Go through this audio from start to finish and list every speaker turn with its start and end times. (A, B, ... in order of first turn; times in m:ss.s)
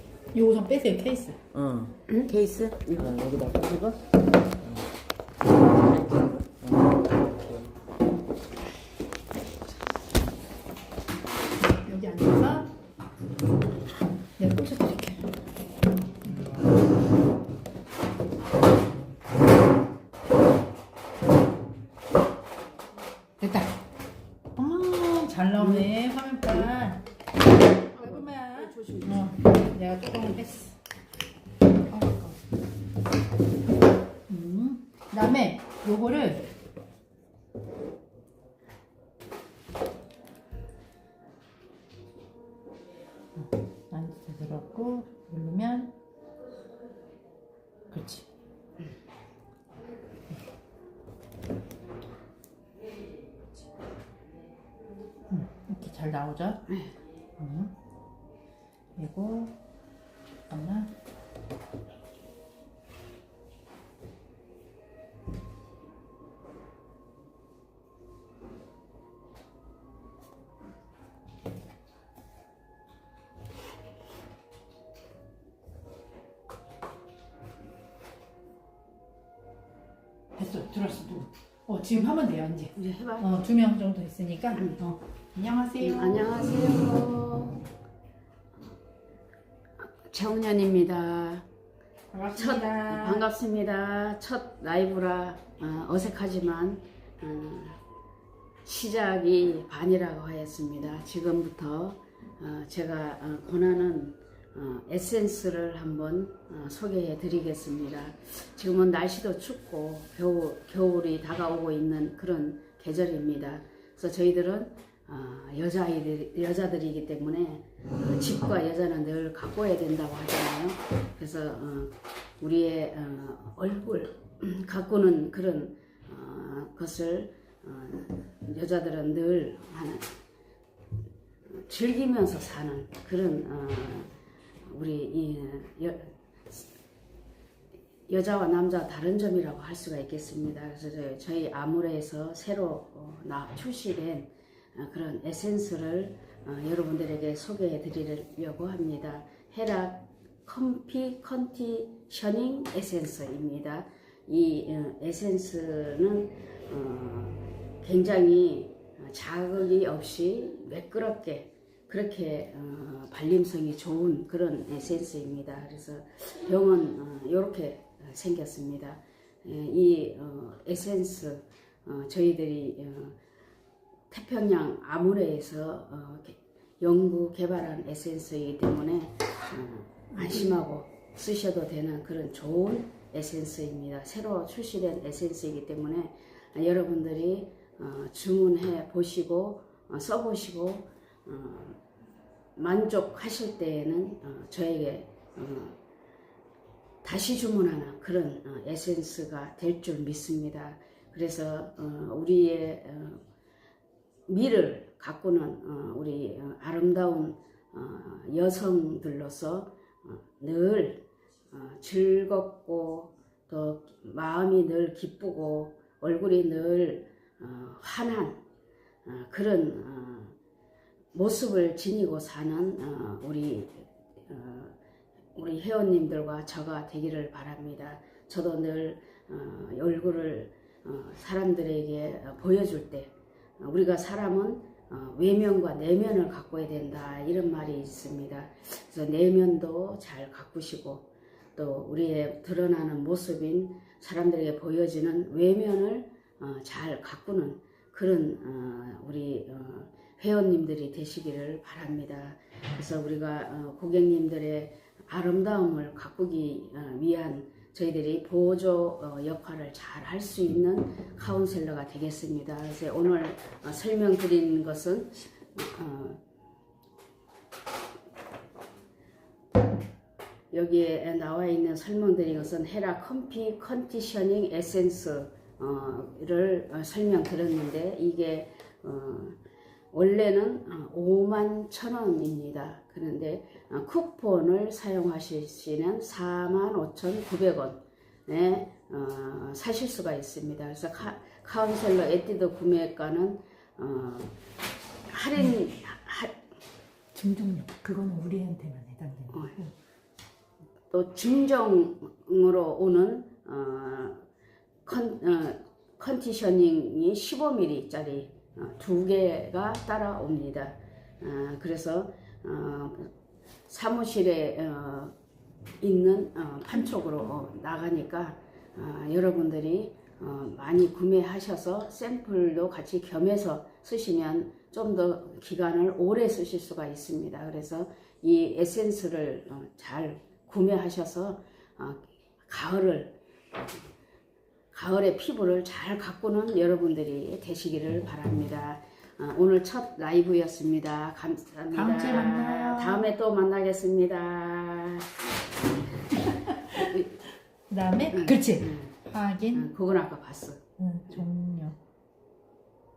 0:00.3-0:01.4 A
0:01.5-0:04.0 B
0:05.8-0:07.7 B
0:11.6-0:12.7 A
0:14.4-0:15.3 A
0:23.4-0:23.8 A
0:24.6-0:27.0 A
0:25.6-0:25.9 C
0:26.5-0:26.8 C
0:27.9-0:29.3 C
0:27.9-0:30.8 A
0:31.9-0:32.4 A
0:34.3-0:36.5 A
0:43.3-0:46.0 A
0:47.9-0:48.3 A
0:55.3-0:56.6 A
0:57.4-0:57.7 A
0:59.0-0:59.6 A
1:00.5-1:00.9 A
1:20.3-1:26.3 A
1:22.7-1:23.3 C
1:24.5-1:24.8 C
1:25.8-1:27.6 C
1:29.9-1:31.4 C
1:32.1-1:33.3 A
1:32.3-1:37.8 C
1:38.6-2:10.1 C
2:11.5-2:14.1 C
2:14.6-2:16.6 C
2:18.1-2:53.2 C
2:54.1-3:11.8 C
3:00.1-3:00.4 A
3:12.6-3:15.8 C
3:17.0-3:23.2 C
3:24.3-3:38.4 C
3:39.0-3:40.3 C
3:41.1-3:44.8 C
3:45.3-4:26.2 C
4:30.5-4:39.4 C
4:39.9-4:54.3 C
4:55.1-4:56.4 C
4:57.1-4:59.7 A
5:00.9-5:04.2 C
5:04.8-5:13.1 C
5:13.7-5:15.1 C
5:15.8-5:33.2 C
5:34.7-5:45.1 C
5:41.7-5:43.1 A
5:46.2-5:46.9 A
5:46.8-5:47.1 C
5:47.7-5:49.7 A
5:48.1-5:49.0 C
5:49.5-5:51.2 C
5:50.8-5:51.8 A